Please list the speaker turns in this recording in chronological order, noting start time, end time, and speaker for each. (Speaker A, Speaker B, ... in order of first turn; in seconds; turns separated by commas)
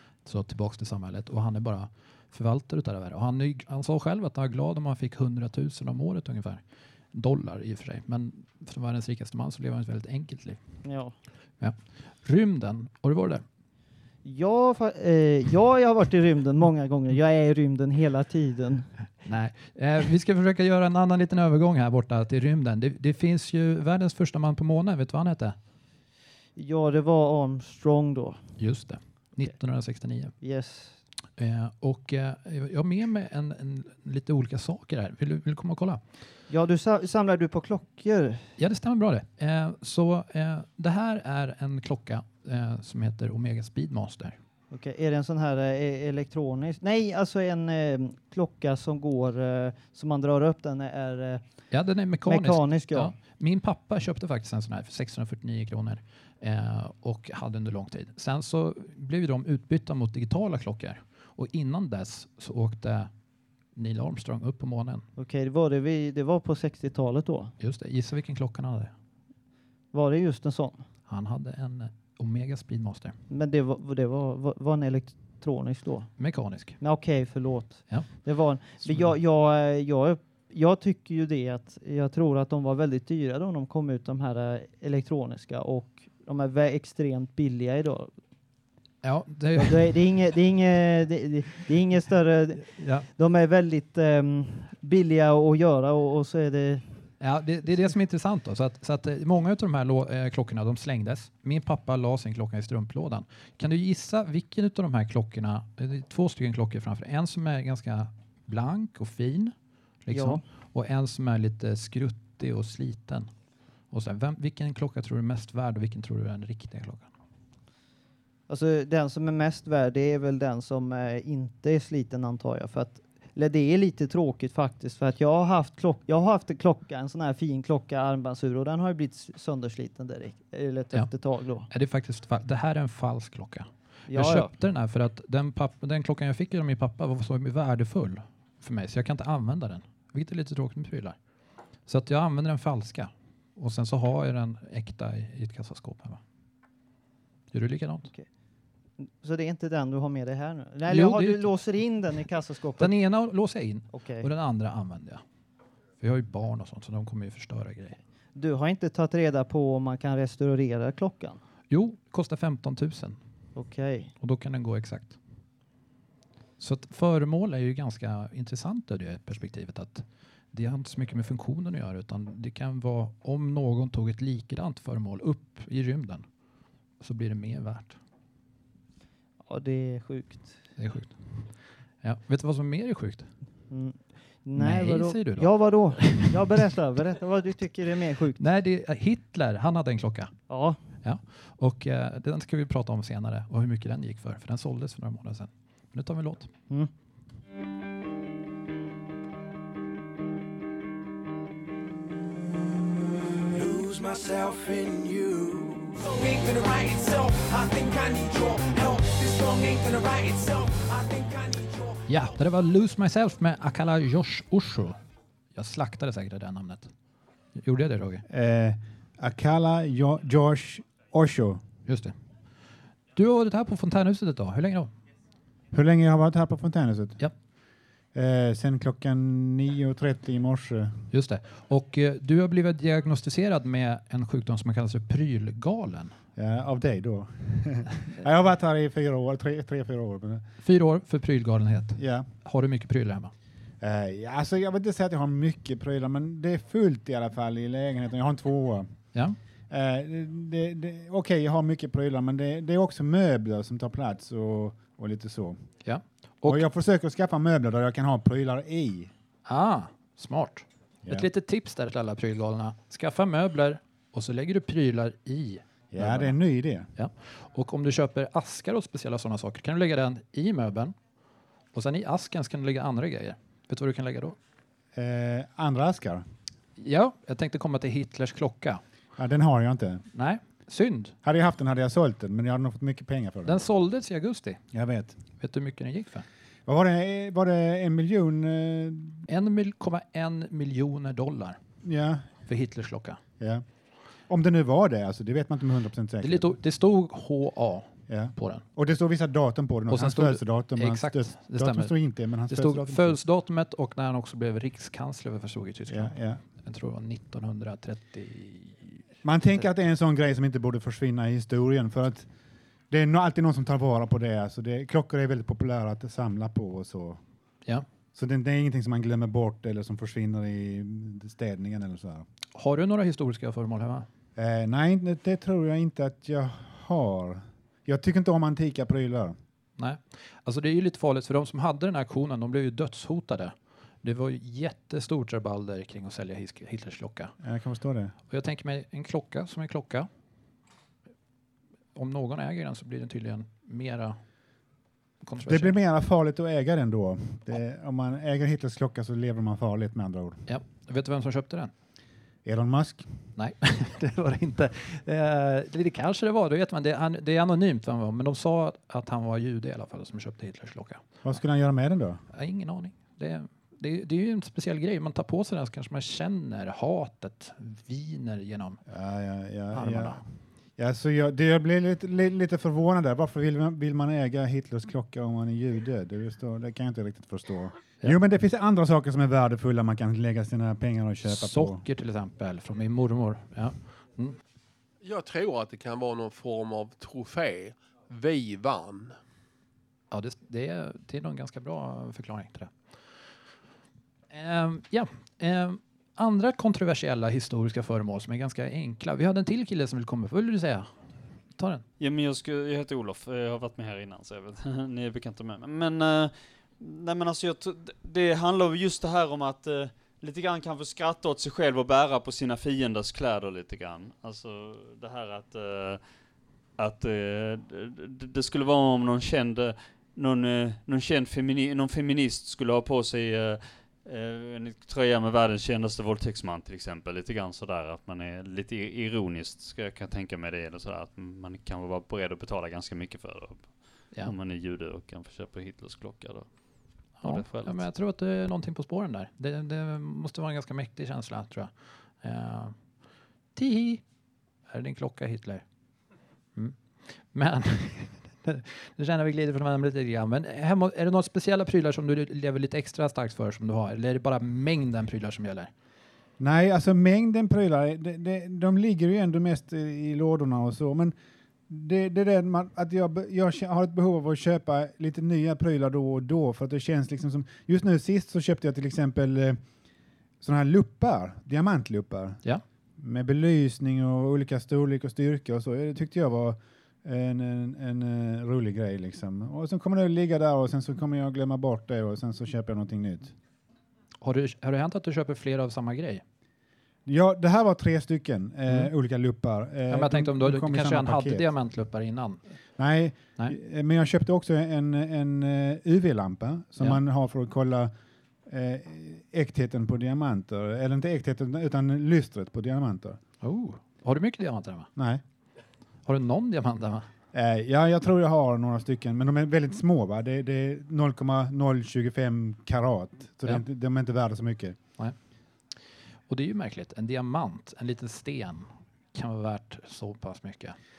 Speaker A: 0.2-10.8, Speaker B: 10.8-11.1, Speaker A: 11.6-13.4, Speaker B: 14.2-18.9, Speaker A: 19.2-25.6, Speaker B: 26.6-28.4, Speaker A: 28.6-30.3, Speaker B: 30.4-31.0, Speaker A: 31.4-36.0, Speaker B: 36.5-38.5, Speaker A: 38.6-44.4, Speaker B: 44.7-51.4, Speaker A: 51.7-63.1, Speaker B: 52.2-53.1, Speaker A: 63.7-65.0, Speaker B: 65.2-67.5, Speaker A: 67.6-68.9, Speaker B: 69.9-70.8, Speaker A: 71.1-73.2, Speaker B: 73.3-88.1, Speaker A: 76.2-76.8, Speaker A: 77.9-79.1, Speaker A: 89.0-90.0, Speaker B: 89.5-96.9, Speaker A: 92.7-93.1, Speaker A: 97.2-113.3, Speaker B: 110.1-110.4, Speaker A: 113.9-117.1, Speaker B: 118.5-131.7, Speaker A: 131.7-141.2, Speaker B: 134.1-134.5, Speaker A: 141.8-146.2, Speaker A: 147.5-148.1, Speaker B: 149.0-152.9, Speaker A: 150.9-151.5, Speaker A: 152.8-155.2, Speaker B: 153.9-154.3, Speaker A: 156.0-158.0, Speaker B: 158.3-161.4, Speaker A: 161.7-163.2, Speaker B: 163.6-164.1, Speaker A: 164.2-165.2, Speaker A: 166.6-176.3, Speaker A: 177.0-178.0, Speaker B: 179.4-180.6, Speaker A: 180.8-183.3, Speaker B: 183.7-188.4, Speaker A: 184.5-186.6, Speaker A: 188.4-190.3, Speaker B: 190.5-190.8, Speaker A: 191.0-196.5, Speaker C: 203.5-212.1, Speaker A: 212.1-215.0, Speaker A: 215.5-216.9, Speaker A: 217.5-218.2, Speaker D: 218.3-221.6, Speaker A: 221.8-222.1, Speaker A: 223.1-224.9, Speaker D: 225.7-227.2, Speaker D: 228.1-231.1, Speaker A: 231.1-236.1, Speaker D: 236.3-240.4, Speaker A: 240.6-243.3, Speaker D: 241.9-242.3, Speaker D: 243.8-249.1, Speaker D: 249.7-255.8, Speaker A: 255.8-256.6, Speaker D: 256.4-259.1, Speaker A: 259.4-266.4, Speaker D: 265.9-266.9, Speaker A: 266.9-270.9, Speaker A: 271.7-274.4, Speaker D: 274.9-276.3, Speaker A: 276.8-278.8, Speaker D: 279.1-280.0, Speaker A: 280.1-281.1, Speaker D: 281.2-283.6, Speaker A: 283.4-284.6, Speaker D: 284.7-285.2, Speaker A: 285.2-286.2, Speaker D: 286.6-289.2, Speaker A: 289.3-291.6, Speaker D: 291.8-292.4, Speaker A: 292.4-293.2, Speaker D: 293.4-293.6, Speaker D: 294.2-296.5, Speaker A: 296.2-298.6, Speaker D: 298.1-303.2, Speaker A: 299.9-309.0, Speaker D: 305.9-306.4, Speaker D: 309.2-312.3, Speaker D: 312.9-317.2, Speaker D: 318.1-322.2, Speaker A: 322.5-324.1, Speaker D: 324.4-329.4, Speaker A: 329.8-337.4, Speaker D: 337.4-338.1, Speaker A: 338.3-340.1, Speaker A: 341.9-344.2, Speaker A: 345.2-345.8, Speaker D: 345.4-350.4, Speaker A: 350.5-351.7, Speaker D: 352.4-353.3, Speaker A: 353.4-361.3, Speaker D: 361.2-362.2, Speaker A: 362.3-368.8, Speaker D: 368.9-381.8, Speaker A: 369.7-370.2, Speaker A: 381.2-384.4, Speaker E: 385.0-389.1, Speaker A: 390.1-393.3, Speaker A: 394.3-400.9, Speaker A: 401.6-401.8, Speaker F: 402.0-416.1, Speaker F: 416.8-437.9, Speaker A: 437.2-442.8, Speaker A: 443.5-444.0, Speaker A: 444.7-445.6, Speaker A: 446.5-455.7, Speaker D: 456.4-461.1, Speaker D: 461.7-469.6, Speaker D: 470.4-472.4, Speaker D: 473.0-483.3, Speaker A: 484.2-486.2, Speaker D: 487.1-491.5, Speaker A: 488.7-488.9, Speaker A: 489.9-492.4, Speaker D: 492.8-497.9, Speaker D: 498.4-503.2, Speaker A: 503.4-504.9, Speaker D: 504.9-505.2, Speaker A: 506.1-507.1, Speaker D: 507.3-514.9, Speaker A: 515.7-520.8